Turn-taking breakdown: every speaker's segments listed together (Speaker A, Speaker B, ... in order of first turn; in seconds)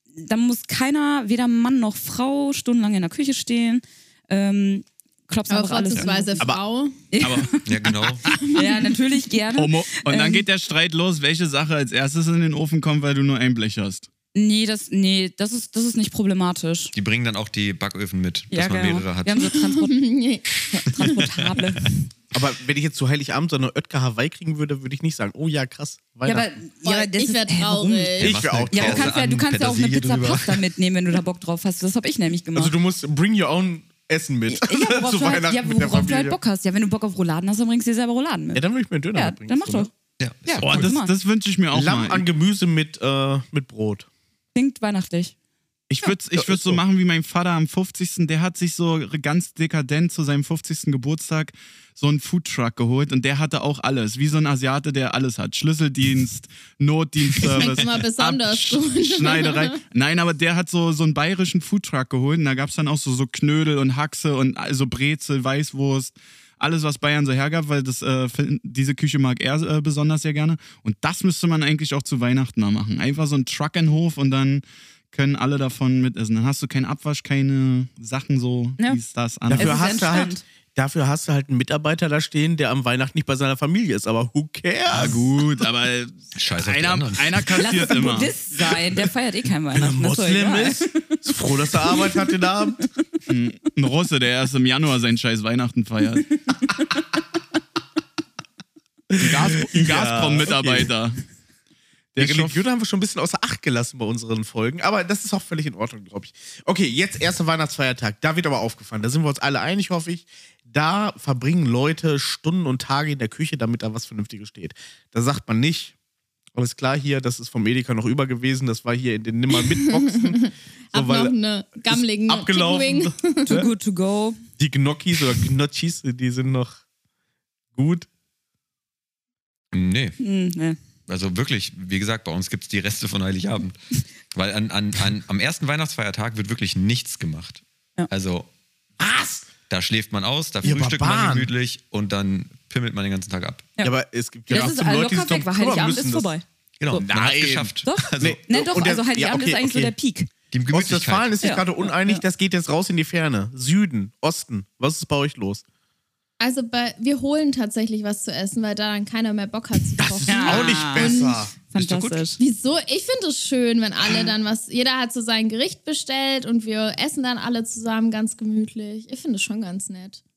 Speaker A: 0.2-6.5, 7.1-7.7, 8.5-10.5, 14.3-16.9, 18.5-20.0, 20.6-22.1, 26.2-32.7, 34.5-39.9, 40.5-41.1, 44.5-45.3, 78.8-80.4, 87.5-92.3, 96.5-97.0, 123.5-124.4, 130.2-130.8, 144.5-147.1, 147.8-150.3, 151.4-152.2, 160.3-162.4
Speaker B: 5.5-7.0, 19.5-21.1, 26.8-28.4, 57.5-59.8, 119.7-123.6, 156.4-161.4, 162.4-170.2
Speaker C: 7.2-8.6, 9.5-14.1, 40.6-42.2, 45.9-79.9, 84.9-88.3, 93.3-96.4, 99.2-101.2, 102.1-102.6
Speaker D: 7.7-8.4, 16.9-19.5, 28.2-30.6, 40.2-40.9, 86.3-87.5, 129.7-130.2, 131.1-133.8, 134.3-138.5, 139.7-143.7, 146.8-148.4, 150.5-151.3, 161.8-162.2
Speaker E: 22.3-26.5, 28.2-29.1, 32.5-36.4, 38.5-39.9, 41.7-44.1, 46.3-46.8, 79.5-85.2, 89.7-92.8, 99.1-100.9, 102.2-115.9, 116.5-123.7, 124.6-126.8, 127.7-128.1, 139.0-139.5, 140.6-141.5, 143.8-146.3, 147.0-149.9, 150.7-155.6, 160.0-161.5